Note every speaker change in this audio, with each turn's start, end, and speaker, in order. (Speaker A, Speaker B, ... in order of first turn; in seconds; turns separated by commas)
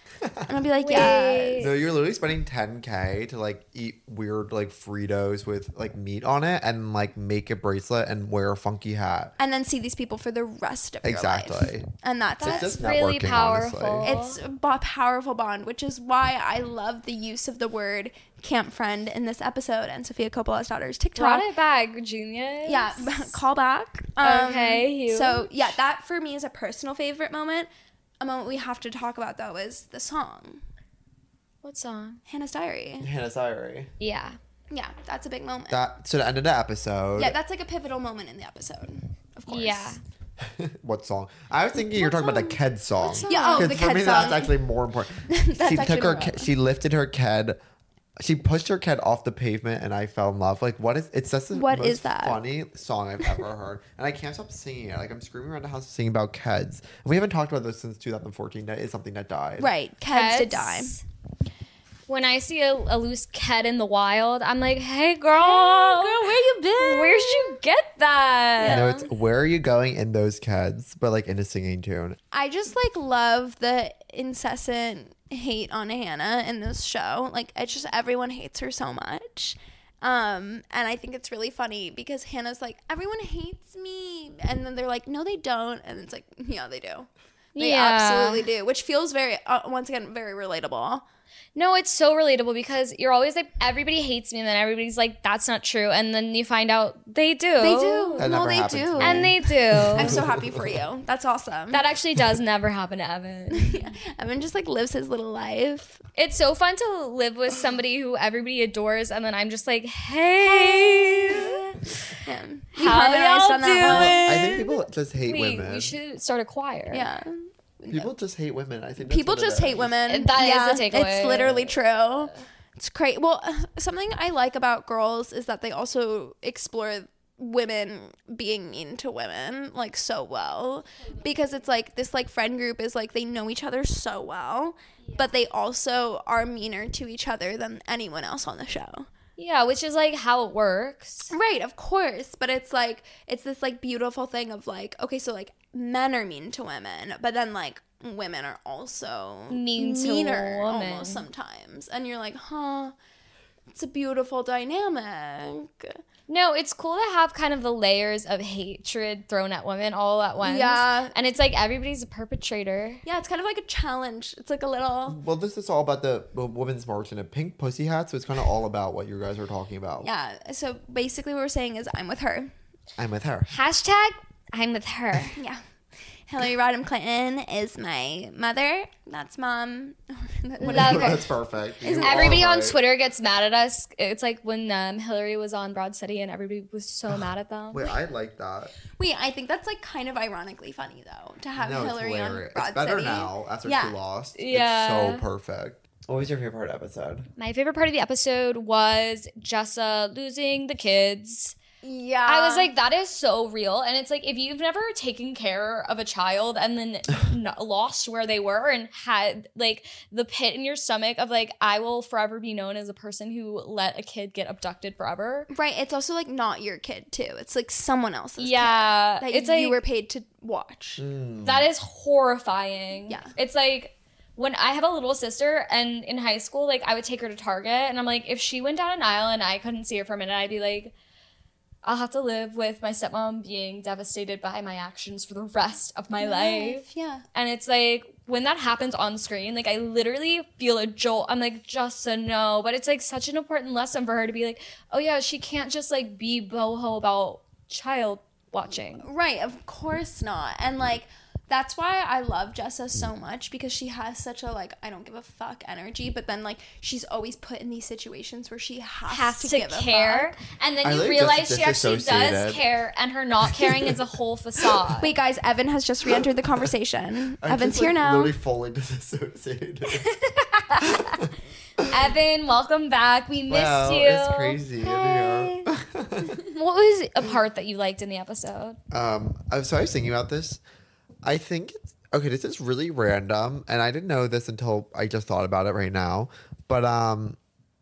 Speaker A: 0.2-9.3, Speaker B: 0.5-1.7, Speaker C: 0.8-1.7, Speaker B: 9.4-12.8, Speaker A: 11.0-11.9, Speaker C: 12.4-14.4, Speaker A: 12.4-14.1, Speaker B: 14.0-21.5, Speaker C: 21.2-23.4, Speaker B: 22.7-27.7, Speaker C: 24.2-25.7, Speaker B: 28.2-30.6, Speaker C: 31.6-32.2, Speaker B: 32.3-33.1, Speaker A: 33.0-33.9, Speaker C: 34.0-34.4, Speaker B: 34.7-35.9, Speaker A: 35.7-37.4, Speaker B: 37.2-40.0, Speaker C: 39.5-40.0, Speaker A: 40.4-47.6, Speaker B: 41.8-42.6, Speaker B: 43.1-44.5, Speaker C: 43.2-43.7, Speaker B: 45.3-46.5, Speaker A: 48.2-59.7, Speaker B: 51.5-52.4, Speaker B: 59.6-61.0, Speaker C: 60.1-61.0, Speaker C: 62.1-66.2, Speaker B: 65.4-67.6, Speaker C: 66.8-68.9, Speaker B: 68.6-69.0, Speaker A: 68.6-72.2, Speaker B: 72.3-91.0, Speaker C: 87.6-88.5, Speaker C: 91.5-98.3, Speaker B: 97.6-101.8, Speaker A: 98.2-100.8, Speaker C: 99.0-100.2, Speaker C: 101.7-103.9, Speaker B: 103.5-106.0, Speaker C: 106.2-112.0, Speaker B: 110.4-111.7, Speaker B: 112.2-114.8, Speaker C: 112.8-114.7, Speaker A: 113.8-116.0, Speaker C: 115.2-117.1, Speaker B: 116.9-118.1, Speaker A: 117.9-120.0, Speaker B: 119.0-139.1, Speaker C: 120.1-121.8, Speaker C: 139.4-141.3, Speaker B: 141.3-152.9, Speaker C: 149.5-151.2, Speaker B: 153.7-156.0, Speaker C: 156.3-163.0, Speaker B: 160.4-161.1, Speaker B: 163.0-165.2, Speaker A: 165.1-170.1, Speaker B: 170.0-172.5, Speaker A: 173.0-173.5, Speaker C: 173.5-175.4, Speaker B: 175.3-175.6, Speaker B: 176.3-182.4, Speaker A: 180.6-182.8, Speaker C: 180.6-181.2, Speaker C: 182.0-187.9, Speaker A: 187.7-188.7, Speaker B: 188.9-193.9, Speaker A: 191.6-197.3, Speaker C: 194.4-195.2, Speaker C: 197.4-201.6, Speaker B: 201.8-202.7, Speaker C: 202.3-215.5, Speaker B: 215.5-221.0, Speaker C: 218.4-219.8, Speaker A: 221.0-221.7, Speaker C: 221.4-230.9, Speaker B: 223.1-223.3, Speaker C: 231.8-249.1, Speaker B: 236.2-237.2, Speaker B: 249.0-260.4, Speaker C: 259.1-265.1, Speaker A: 260.8-262.6, Speaker A: 263.5-264.0, Speaker B: 265.0-268.4, Speaker A: 267.4-270.1, Speaker C: 269.9-271.2, Speaker A: 270.8-271.9, Speaker C: 271.9-275.7, Speaker A: 273.5-276.4, Speaker C: 276.4-278.8, Speaker A: 278.9-280.6, Speaker A: 281.2-287.4